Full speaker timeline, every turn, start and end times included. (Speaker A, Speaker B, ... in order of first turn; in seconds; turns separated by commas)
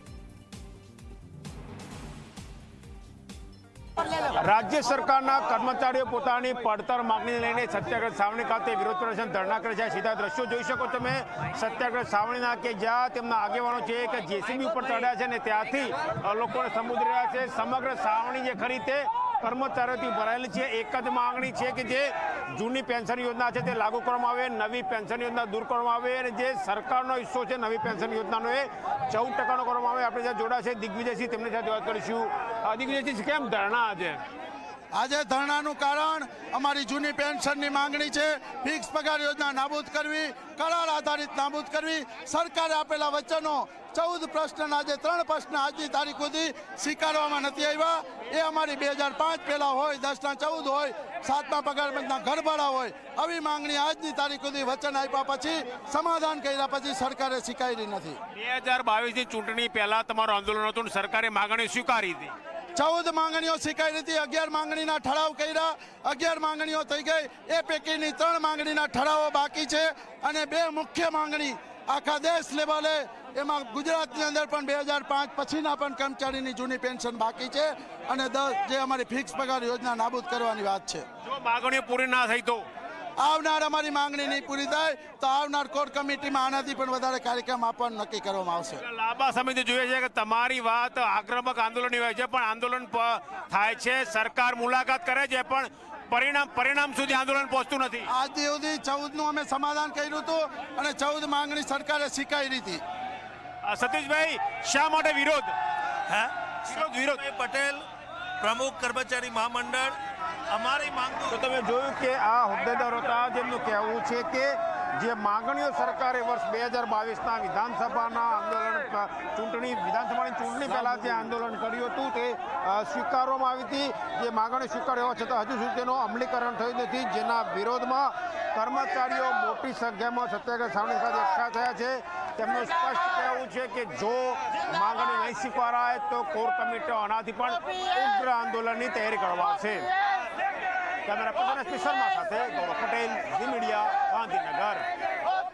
Speaker A: 4.3-34.2, Speaker B: 34.9-58.2, Speaker A: 58.4-62.3, Speaker B: 62.8-81.0, Speaker A: 81.2-82.6, Speaker B: 83.2-88.8, Speaker A: 88.8-98.1, Speaker B: 98.1-102.8, Speaker A: 103.6-105.5, Speaker A: 106.7-107.2, Speaker C: 106.9-107.8, Speaker C: 108.4-109.9, Speaker C: 110.5-111.3, Speaker A: 111.3-139.9, Speaker A: 141.1-144.8